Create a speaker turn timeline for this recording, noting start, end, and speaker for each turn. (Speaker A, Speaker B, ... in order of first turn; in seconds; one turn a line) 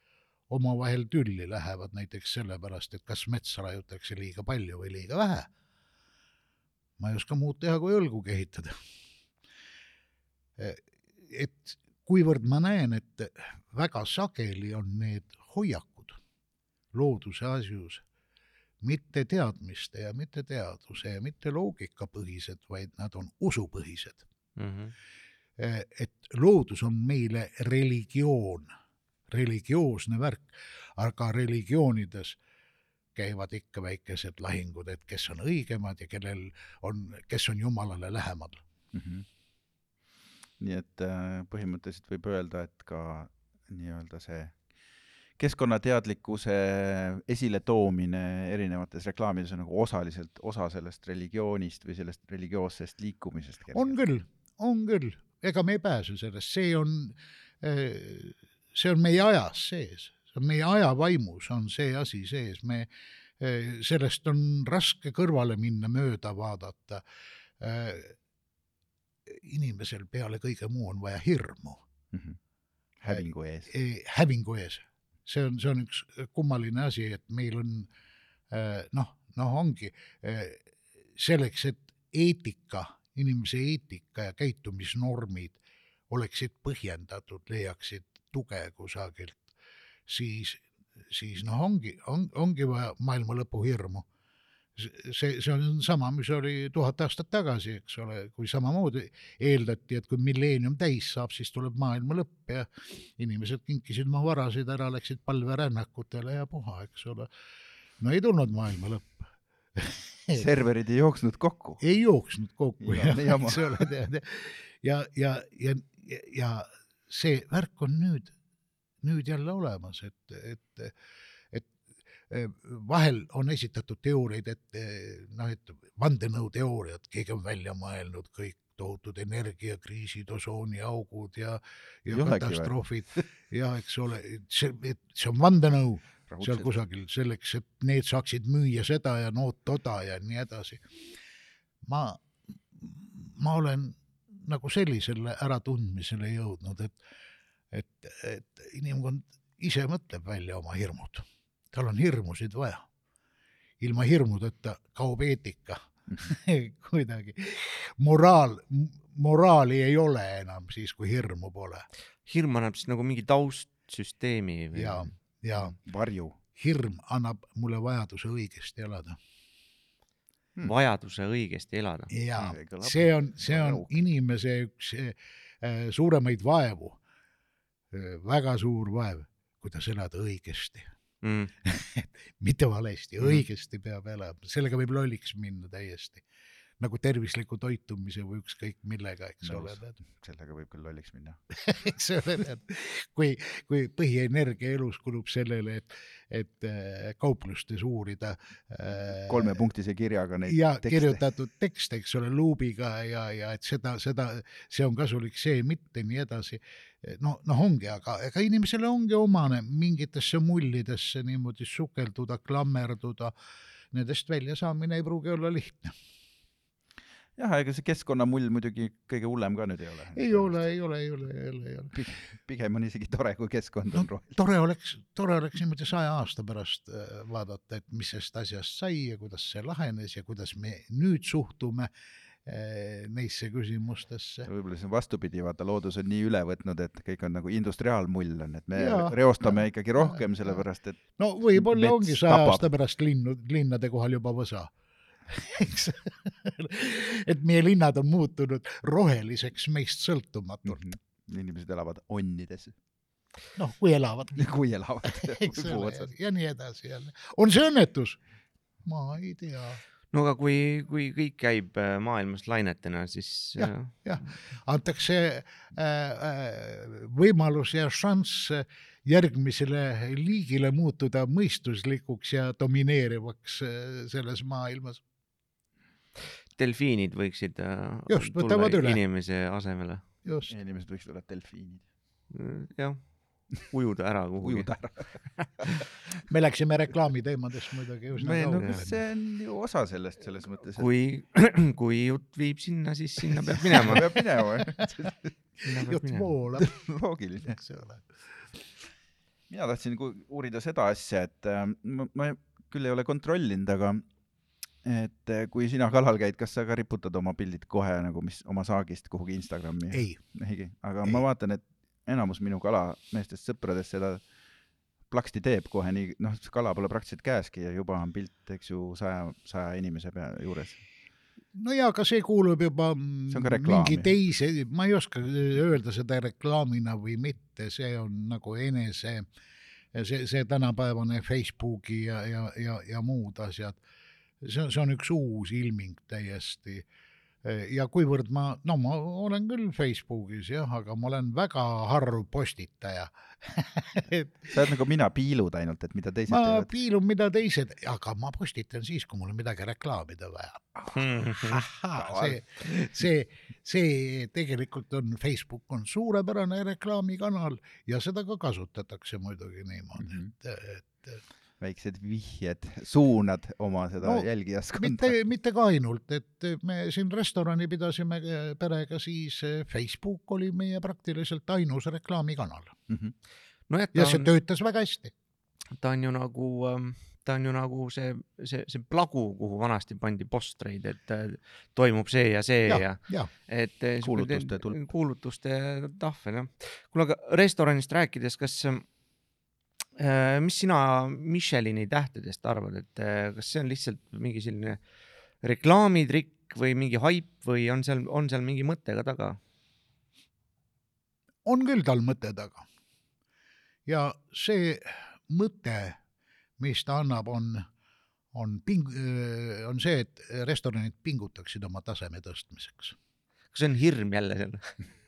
Speaker A: 0.5-5.5
Speaker A: 7.0-8.7
Speaker A: 10.6-16.2
Speaker A: 16.9-18.0
Speaker A: 18.8-24.2
Speaker B: 24.6-24.9
Speaker A: 25.6-28.7
Speaker A: 29.3-32.4
Speaker A: 33.1-38.6
Speaker C: 38.9-39.2
Speaker C: 40.6-44.6
Speaker C: 45.4-54.0
Speaker A: 53.7-67.0
Speaker A: 67.6-68.2
Speaker A: 69.3-71.8
Speaker C: 72.1-72.4
Speaker C: 73.0-73.7
Speaker A: 73.1-77.9
Speaker A: 78.5-85.6
Speaker A: 86.1-89.5
Speaker A: 90.1-94.0
Speaker A: 94.8-107.3
Speaker A: 108.0-110.5
Speaker C: 110.3-111.8
Speaker A: 111.8-118.3
Speaker C: 112.8-113.9
Speaker A: 119.0-120.9
Speaker A: 122.3-141.0
Speaker C: 132.1-133.2
Speaker C: 136.3-136.7
Speaker A: 141.8-147.0
Speaker A: 147.7-152.9
Speaker A: 153.8-161.8
Speaker B: 162.2-165.1
Speaker A: 164.7-165.7
Speaker C: 165.5-166.4
Speaker A: 166.5-169.2
Speaker B: 170.6-172.1
Speaker A: 172.1-177.0
Speaker C: 172.3-174.0
Speaker A: 177.9-180.9
Speaker B: 181.2-181.5
Speaker A: 181.6-186.2
Speaker A: 186.8-189.9
Speaker C: 189.4-191.4
Speaker A: 191.6-199.6
Speaker C: 199.1-201.2
Speaker A: 200.5-213.3
Speaker A: 213.9-215.9
Speaker C: 217.4-220.6
Speaker A: 220.1-221.9
Speaker C: 221.9-224.3
Speaker A: 223.9-231.9
Speaker A: 232.4-234.5
Speaker C: 234.4-242.7
Speaker A: 238.7-240.6
Speaker A: 241.2-244.7
Speaker A: 245.3-250.8
Speaker C: 250.7-252.7
Speaker A: 253.6-254.5
Speaker C: 254.3-256.1
Speaker A: 255.0-258.2
Speaker A: 258.8-259.8
Speaker B: 260.1-264.3
Speaker A: 263.6-275.0
Speaker B: 276.6-280.0
Speaker A: 278.1-279.0
Speaker A: 280.2-280.5
Speaker C: 280.5-281.8
Speaker B: 282.3-284.7
Speaker C: 284.4-285.2
Speaker A: 286.3-289.0
Speaker C: 288.1-290.9
Speaker B: 288.3-288.8
Speaker B: 290.8-294.0
Speaker C: 293.7-295.3
Speaker B: 295.6-296.3
Speaker A: 295.7-296.7
Speaker C: 296.6-297.6
Speaker A: 297.4-298.0
Speaker C: 299.5-304.0
Speaker C: 304.8-314.2
Speaker A: 309.9-310.2
Speaker C: 315.1-320.8
Speaker A: 321.5-329.3
Speaker C: 323.3-324.1
Speaker A: 329.9-333.8
Speaker A: 334.4-336.9
Speaker A: 337.4-344.6
Speaker C: 344.5-346.7
Speaker A: 346.3-361.2
Speaker B: 350.9-351.6
Speaker C: 351.9-352.4
Speaker C: 360.0-360.3
Speaker C: 361.6-365.1
Speaker A: 364.0-372.7
Speaker C: 372.9-373.1
Speaker B: 373.7-374.3
Speaker A: 373.9-375.1
Speaker B: 375.7-388.9
Speaker A: 382.7-383.3
Speaker C: 384.0-384.9
Speaker B: 390.0-394.8
Speaker B: 395.4-399.4
Speaker A: 401.4-402.6
Speaker A: 403.9-406.0
Speaker A: 406.6-407.7
Speaker A: 408.3-412.9
Speaker B: 413.5-414.8